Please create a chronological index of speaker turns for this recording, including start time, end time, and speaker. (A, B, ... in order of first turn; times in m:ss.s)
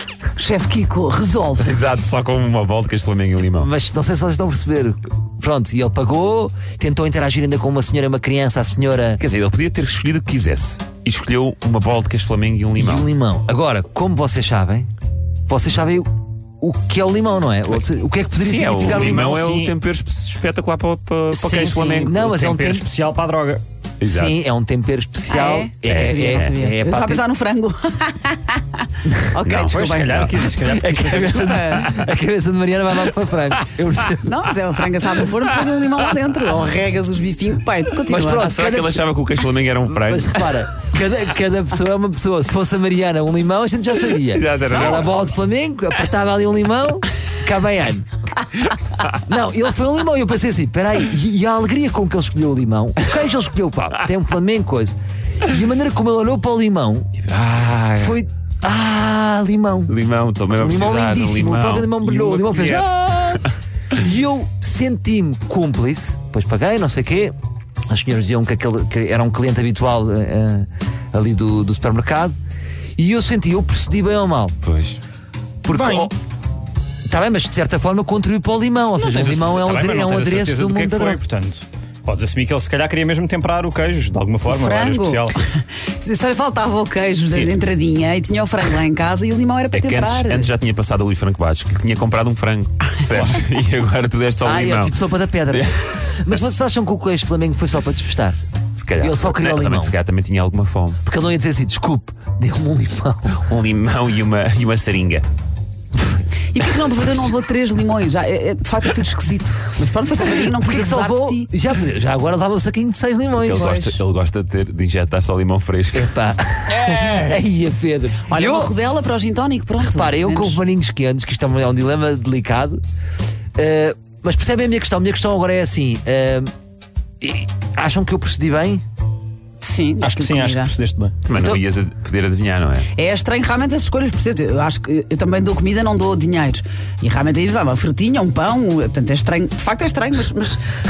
0:00.4-0:01.8 A
0:01.6-0:03.7 B
0:03.6-0:09.2 C
0:09.2-0:13.1 B
0:12.7-0:14.9 C
0:15.5-0:16.1 C
0:16.6-0:19.3 C
0:17.7-0:22.4 B
0:18.8-0:19.7 D
0:21.3-0:23.6 D
0:22.0-0:22.8 C
0:24.0-0:24.4 B
0:24.0-0:27.2 C
0:25.3-0:30.3 A
0:25.8-0:26.5 B
0:29.4-0:30.3 B
0:29.7-0:31.8 D
0:30.6-0:34.4 C
0:31.2-0:31.9 A
0:34.2-0:38.5 A
0:38.1-0:39.0 C
0:38.3-0:40.6 B
0:39.9-0:48.1 C
0:44.3-0:45.1 B
0:49.1-0:57.1 C
0:57.2-0:58.2 B
0:58.0-0:59.9 C
0:59.9-1:03.4 B
1:00.6-1:07.3 C
1:07.9-1:12.4 C
1:13.0-1:14.6 C
1:14.6-1:15.0 B
1:15.6-1:16.1 C
1:15.7-1:16.1 D
1:17.1-1:21.2 C
1:19.0-1:25.4 D
1:24.5-1:30.5 A
1:27.3-1:27.5 B
1:29.7-1:35.0 B
1:33.1-1:33.4 D
1:34.4-1:38.4 C
1:35.5-1:36.0 B
1:38.7-1:41.0 B
1:39.0-1:39.9 C
1:41.0-1:43.4 C
1:43.3-1:45.3 B
1:46.5-1:51.5 A
1:50.2-1:53.8 C
1:53.4-1:56.1 B
1:53.5-1:54.0 A
1:55.9-1:58.7 C
1:56.7-1:57.4 D
1:58.2-2:00.6 A
1:59.8-2:02.8 C
2:03.6-2:06.5 C
2:07.2-2:08.8 C
2:09.6-2:10.7 A
2:10.0-2:11.2 D
2:11.2-2:12.9 B
2:11.3-2:11.6 C
2:12.9-2:20.6 A